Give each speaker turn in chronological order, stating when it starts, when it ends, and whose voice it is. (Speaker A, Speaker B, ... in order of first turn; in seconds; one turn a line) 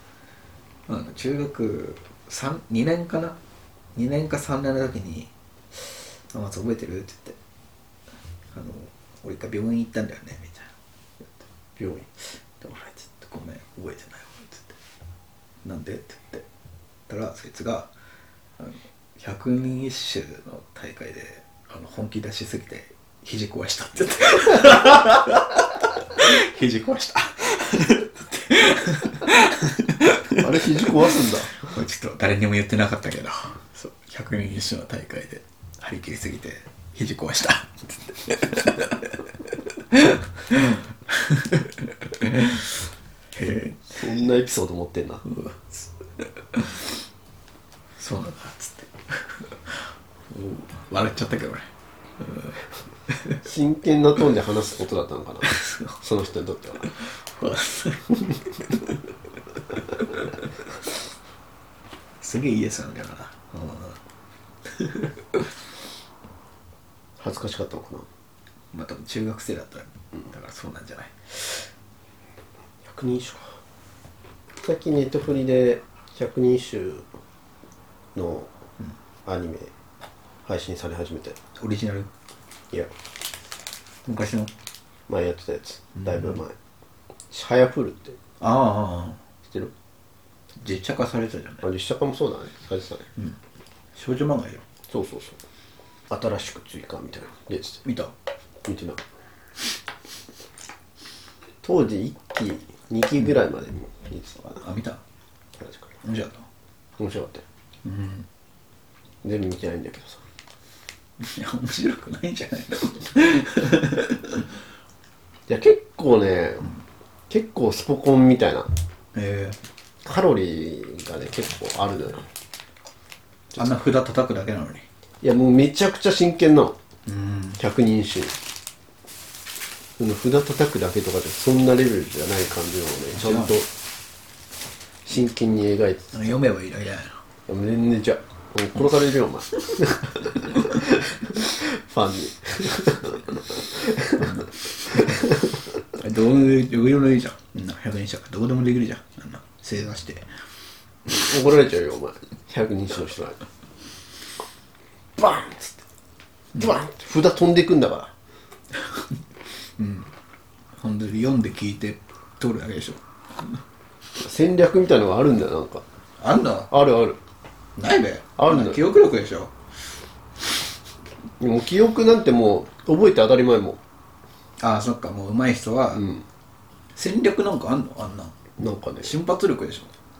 Speaker A: 0.9-3.4
Speaker A: 3.9-7.4
Speaker A: 8.5-11.5
Speaker B: 11.8-12.1
Speaker A: 12.4-14.8
Speaker A: 15.6-16.4
Speaker A: 17.1-17.9
Speaker A: 18.6-30.9
Speaker B: 30.4-31.6
Speaker A: 31.5-39.2
Speaker A: 39.9-42.8
Speaker A: 43.3-43.9
Speaker B: 43.9-45.2
Speaker A: 45.3-45.9
Speaker A: 46.5-46.9
Speaker A: 48.0-51.6
Speaker A: 52.2-52.6
Speaker A: 53.1-53.4
Speaker B: 53.4-56.9
Speaker A: 55.4-55.9
Speaker A: 56.8-58.9
Speaker A: 60.0-60.2
Speaker A: 62.2-64.0
Speaker A: 64.8-65.1
Speaker B: 67.2-68.1
Speaker A: 68.7-71.6
Speaker B: 72.8-73.6
Speaker B: 74.6-77.0
Speaker B: 78.1-78.5
Speaker B: 79.2-79.7
Speaker B: 80.4-81.4
Speaker A: 81.6-82.1
Speaker A: 84.0-84.5
Speaker B: 85.1-86.5
Speaker A: 86.0-86.4
Speaker B: 87.3-88.2
Speaker A: 88.4-89.2
Speaker B: 89.4-89.7
Speaker A: 90.6-91.6
Speaker B: 91.6-93.1
Speaker A: 94.0-94.6
Speaker B: 94.9-95.4
Speaker B: 96.1-97.8
Speaker A: 97.8-98.1
Speaker B: 98.6-99.0
Speaker B: 101.6-104.6
Speaker A: 104.6-105.0
Speaker B: 105.6-106.0
Speaker A: 106.0-106.5
Speaker B: 107.0-107.4
Speaker A: 107.8-108.3
Speaker B: 109.2-110.2
Speaker A: 111.2-114.4
Speaker B: 115.5-116.7
Speaker B: 117.3-118.7
Speaker A: 119.1-119.6
Speaker B: 120.0-122.3
Speaker A: 123.5-124.8
Speaker B: 125.2-126.8
Speaker A: 127.0-127.6
Speaker B: 127.6-128.4
Speaker B: 130.0-133.7
Speaker A: 133.2-133.6
Speaker B: 135.0-136.3
Speaker A: 136.1-137.2
Speaker B: 137.5-144.3
Speaker A: 144.2-145.3
Speaker A: 145.9-150.3
Speaker B: 151.1-153.4
Speaker B: 155.2-155.8
Speaker B: 156.6-158.1
Speaker A: 159.8-160.1
Speaker A: 160.8-163.6
Speaker B: 164.2-165.8
Speaker A: 166.2-166.7
Speaker B: 166.7-167.2
Speaker A: 167.8-169.5
Speaker B: 168.4-168.8
Speaker B: 171.4-173.8
Speaker A: 174.6-176.0
Speaker B: 175.9-176.2
Speaker A: 176.9-178.3
Speaker B: 178.6-179.2
Speaker A: 179.0-179.9